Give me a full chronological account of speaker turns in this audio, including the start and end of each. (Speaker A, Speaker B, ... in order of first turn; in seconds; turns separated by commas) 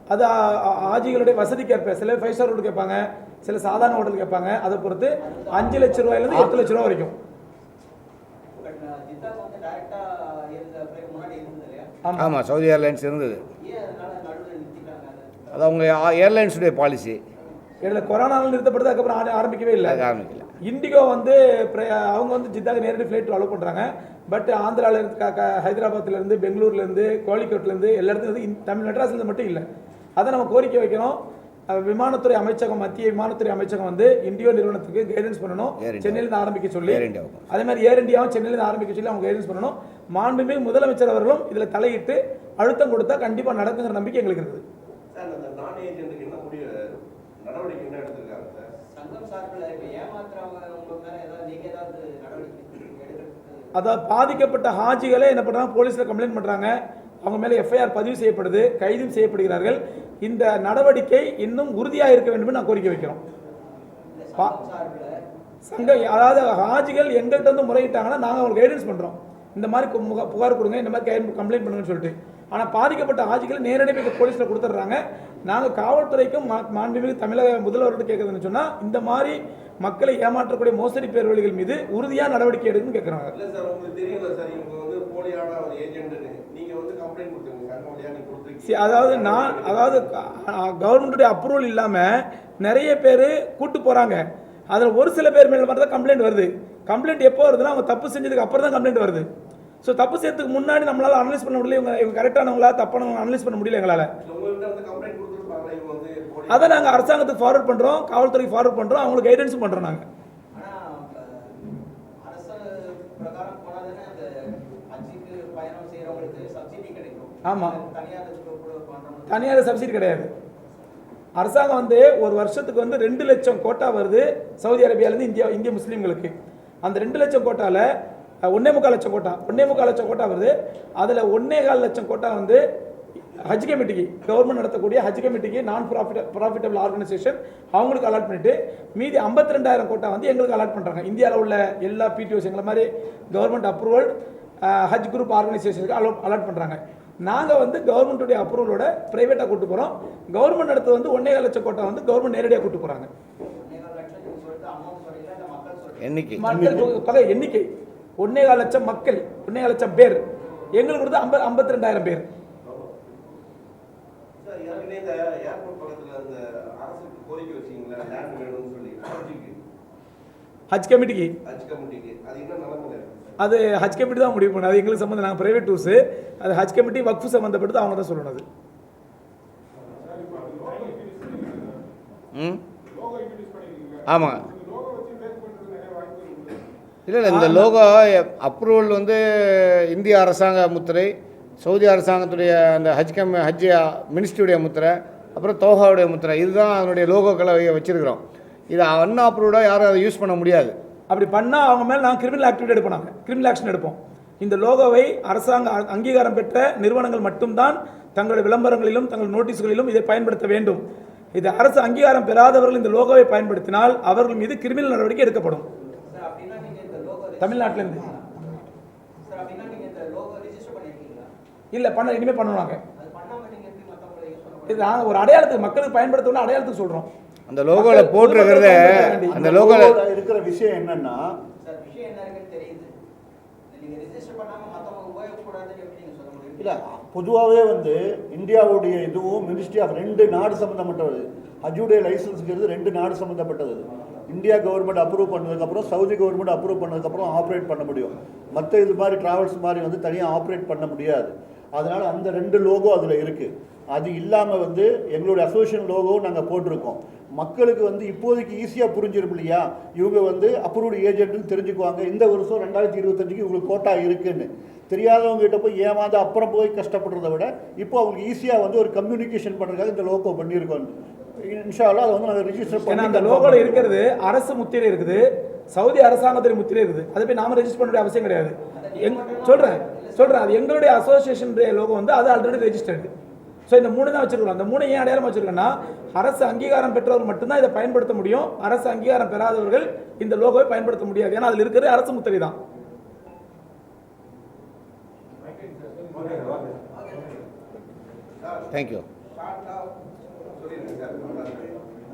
Speaker A: 0.1-7.2, Speaker B: 5.2-6.9, Speaker B: 8.6-11.9, Speaker A: 12.1-12.3, Speaker C: 12.2-13.4, Speaker B: 13.6-15.7, Speaker C: 15.5-17.2, Speaker A: 17.8-20.0, Speaker C: 19.8-20.5, Speaker A: 20.6-29.6, Speaker A: 30.2-31.2, Speaker A: 31.7-44.6, Speaker C: 35.8-36.2, Speaker C: 36.9-37.5, Speaker D: 45.1-48.7, Speaker B: 48.9-53.7, Speaker A: 53.8-63.2, Speaker B: 64.1-65.2, Speaker A: 65.7-83.3, Speaker B: 65.8-66.1, Speaker D: 83.3-90.1, Speaker A: 88.7-99.3, Speaker A: 99.8-104.1, Speaker D: 104.2-107.1, Speaker A: 106.5-110.0, Speaker B: 110.5-111.6, Speaker B: 112.2-119.7, Speaker A: 117.5-117.8, Speaker A: 119.3-120.3, Speaker A: 121.4-126.3, Speaker A: 126.8-127.9, Speaker A: 128.5-132.6, Speaker A: 133.4-144.1, Speaker A: 144.7-153.1, Speaker B: 153.4-156.1, Speaker C: 156.0-156.4, Speaker A: 156.4-157.7, Speaker E: 156.4-156.9, Speaker A: 158.2-160.2, Speaker A: 160.8-162.3, Speaker D: 162.6-163.0, Speaker D: 164.4-169.6, Speaker A: 170.7-171.3, Speaker D: 171.4-173.4, Speaker A: 173.4-178.4, Speaker D: 180.1-181.3, Speaker C: 182.3-182.6, Speaker C: 184.1-184.5, Speaker D: 184.7-186.6, Speaker C: 187.1-200.7, Speaker A: 187.3-187.7, Speaker A: 201.1-210.8, Speaker A: 211.3-215.7, Speaker B: 216.0-218.6, Speaker A: 217.4-218.1, Speaker B: 219.2-221.3, Speaker A: 221.7-222.8, Speaker B: 222.9-225.2, Speaker A: 224.7-227.1, Speaker C: 227.5-230.0, Speaker A: 227.7-229.4, Speaker E: 228.9-231.4, Speaker B: 231.6-232.9, Speaker B: 233.7-236.8, Speaker E: 236.6-273.9, Speaker A: 272.9-283.1, Speaker B: 278.7-280.8, Speaker A: 283.7-292.6, Speaker D: 296.1-296.8, Speaker B: 297.0-297.3, Speaker D: 298.4-298.7, Speaker C: 298.7-299.1, Speaker D: 299.3-299.9, Speaker D: 300.5-301.8